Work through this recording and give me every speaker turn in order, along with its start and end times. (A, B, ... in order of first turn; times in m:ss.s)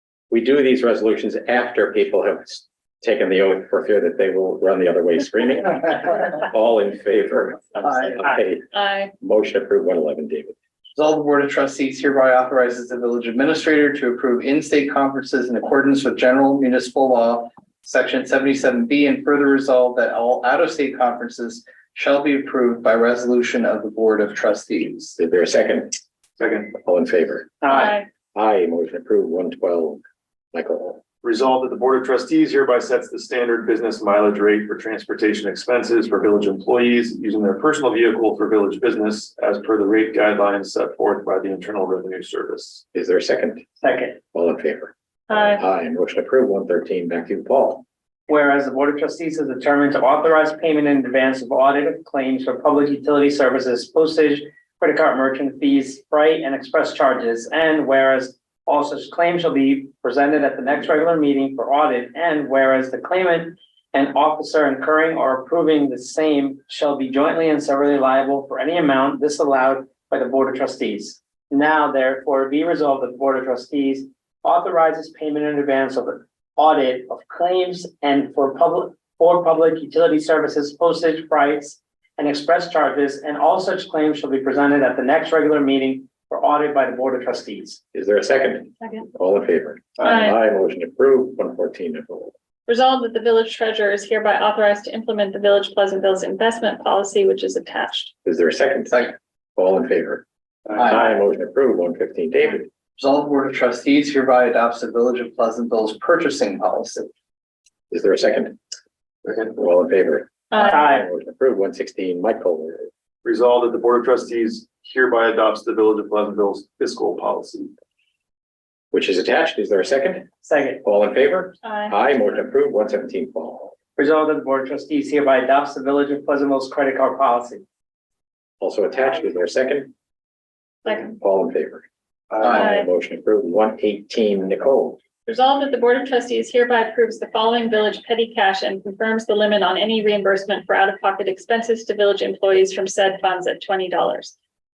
0:00.3-0:08.7 A
0:08.7-0:09.1 B
0:09.2-0:10.6 A
0:11.0-0:25.2 C
0:25.2-0:26.0 A
0:26.4-0:26.7 D
0:26.7-0:30.0 A
0:27.7-0:28.1 B
0:30.5-0:31.0 A
0:31.2-0:42.8 D
0:42.9-0:43.6 A
0:44.3-0:47.8 A
0:45.3-0:45.6 B
0:48.3-1:27.8 E
1:27.9-1:32.3 A
1:30.0-1:30.4 B
1:32.7-1:38.1 B
1:38.2-1:42.7 A
1:43.0-1:47.1 C
1:47.9-1:48.6 A
1:49.3-1:52.9 A
1:50.5-1:50.8 B
1:50.8-1:51.1 E
1:53.2-1:57.7 D
1:58.9-2:00.3 A
2:00.5-2:00.8 E
2:00.8-2:03.7 A
2:01.6-2:02.0 B
2:04.0-2:07.6 E
2:08.6-2:09.9 A
2:10.9-2:11.8 A
2:12.4-2:15.0 A
2:12.6-2:12.9 B
2:15.3-2:24.4 B